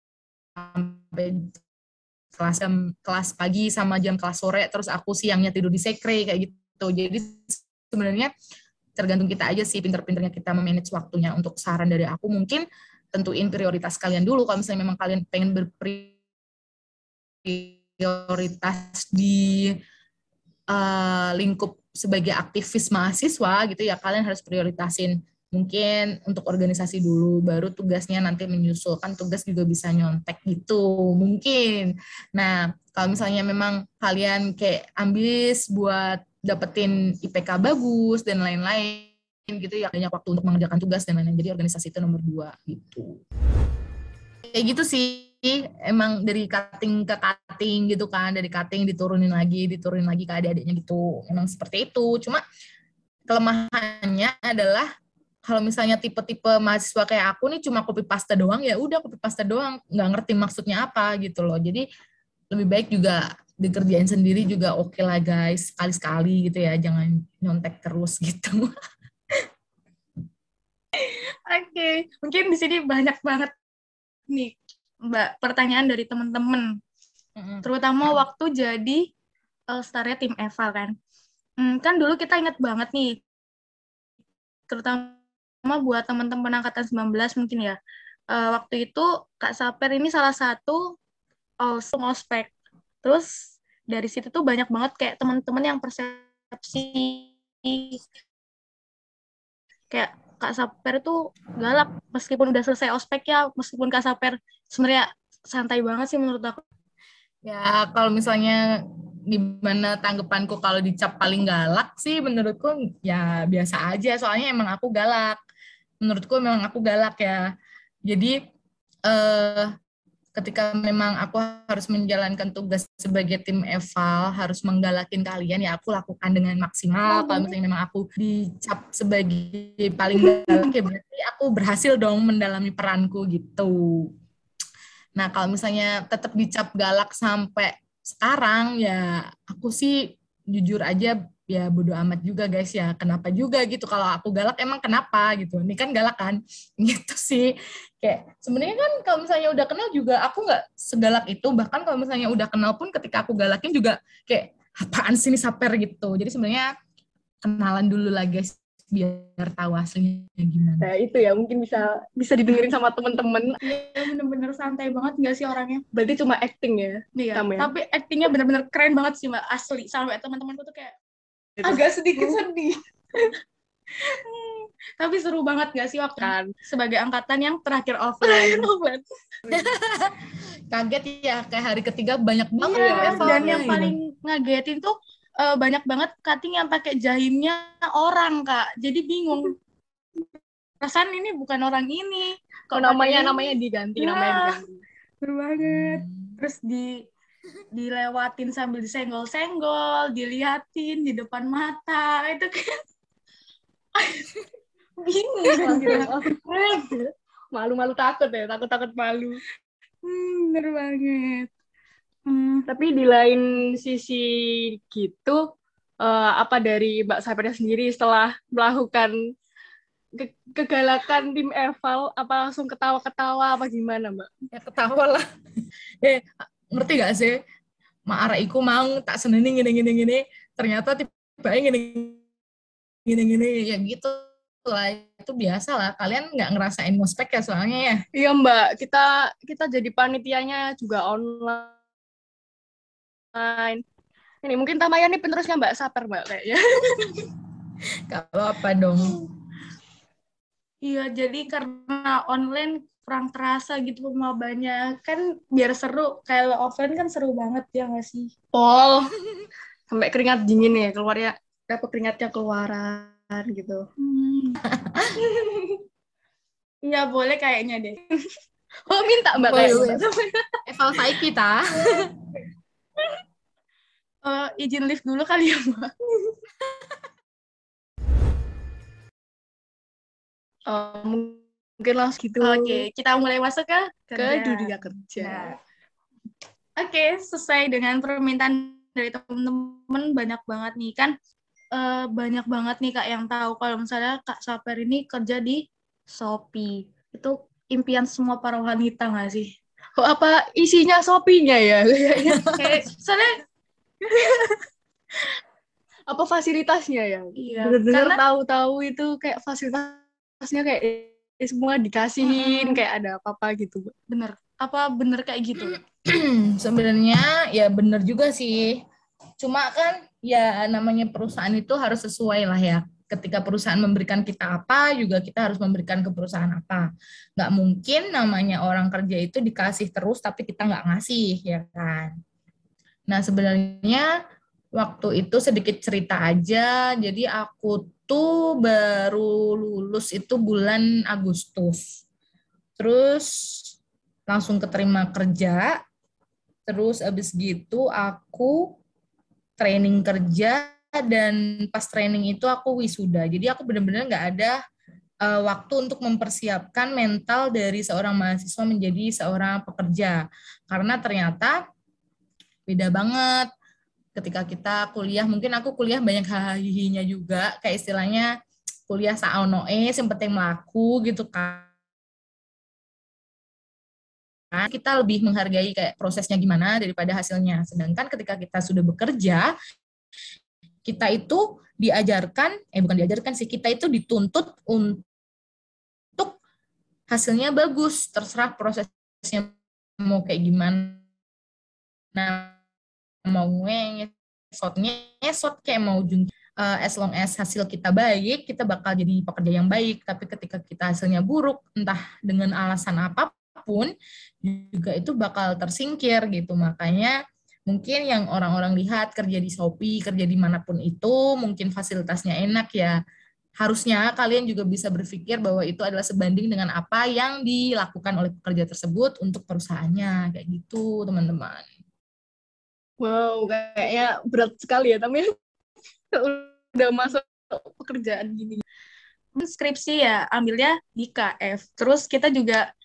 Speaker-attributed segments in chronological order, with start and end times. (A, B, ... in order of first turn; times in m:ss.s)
0:00.6-0:01.6 A
0:02.3-0:08.3 A
0:09.0-0:16.1 A
0:17.4-0:19.7 A
0:20.7-0:43.2 A
0:44.4-0:52.4 A
0:53.3-0:54.9 A
0:55.4-1:01.8 A
1:02.5-1:08.7 A
1:11.0-1:13.5 B
1:14.3-1:14.5 B
1:15.1-1:16.7 B
1:17.4-1:17.6 A
1:17.6-1:19.0 B
1:19.7-1:20.9 B
1:21.6-1:23.2 B
1:24.7-1:27.8 B
1:28.3-1:30.9 B
1:31.6-1:32.5 B
1:33.0-1:38.0 B
1:39.9-1:46.6 B
1:47.4-1:55.4 A
1:56.0-1:57.4 A
1:58.1-1:58.3 A
1:59.1-1:59.7 A
2:00.4-2:14.1 A
2:07.1-2:07.5 B
2:15.2-2:36.7 A
2:37.4-2:40.9 A
2:40.8-2:43.6 C
2:43.6-2:45.8 B
2:45.9-2:47.7 C
2:47.2-2:51.0 B
2:51.6-2:52.4 C
2:51.6-2:52.7 B
2:54.0-2:58.7 B
2:56.2-2:56.5 C
2:58.2-2:59.6 C
2:59.5-3:04.0 A
3:02.6-3:03.8 C
3:02.7-3:09.5 B
3:10.8-3:14.5 B
3:12.7-3:14.8 C
3:15.2-3:17.0 B
3:15.6-3:16.4 A
3:17.7-3:22.7 B
3:24.0-3:24.3 B
3:25.0-3:26.9 B
3:25.5-3:26.3 C
3:27.5-3:29.4 C
3:30.0-3:31.5 B
3:32.3-3:32.7 B
3:32.7-3:35.4 C
3:36.0-3:39.1 C
3:40.2-3:44.3 C
3:44.5-3:45.2 A
3:46.0-3:47.4 A
3:48.1-3:52.2 A
3:53.0-3:58.0 A
3:58.1-4:01.7 C
4:03.3-4:03.8 C
4:04.4-4:07.3 C
4:08.1-4:09.2 A
4:10.8-4:18.3 B
4:18.5-4:19.2 C
4:19.9-4:23.8 C
4:24.0-4:24.6 B
4:24.8-4:25.2 A
4:25.2-4:25.7 C
4:26.8-4:28.1 B
4:28.9-4:30.5 C
4:29.4-4:30.0 A
4:30.6-4:32.1 A
4:34.2-4:35.9 B
4:40.7-4:42.9 C
4:42.4-4:45.6 B
4:44.2-4:45.5 C
4:46.8-4:51.1 B
4:51.7-4:59.5 B
5:00.0-5:02.4 C
5:02.3-5:02.6 A
5:02.5-5:03.4 B
5:04.2-5:04.4 C
5:06.1-5:13.9 C
5:07.4-5:08.2 B
5:12.2-5:12.8 B
5:14.1-5:15.8 B
5:15.6-5:18.8 A
5:19.4-5:32.1 A
5:33.1-5:34.1 A
5:34.8-5:42.0 A
5:42.8-5:43.7 A
5:44.3-5:45.8 A
5:46.7-5:48.8 A
5:49.6-5:54.5 A
5:55.2-6:01.6 A
6:02.7-6:03.5 A
6:04.1-6:08.3 A
6:08.9-6:11.7 A
6:14.5-6:19.5 A
6:20.8-6:25.0 A
6:27.1-6:31.0 A
6:32.1-6:32.6 A
6:33.2-6:43.9 A
6:44.4-6:47.1 A
6:47.7-6:53.0 A
6:53.6-7:01.7 A
7:03.0-7:05.3 C
7:06.1-7:08.6 C
7:09.4-7:12.6 B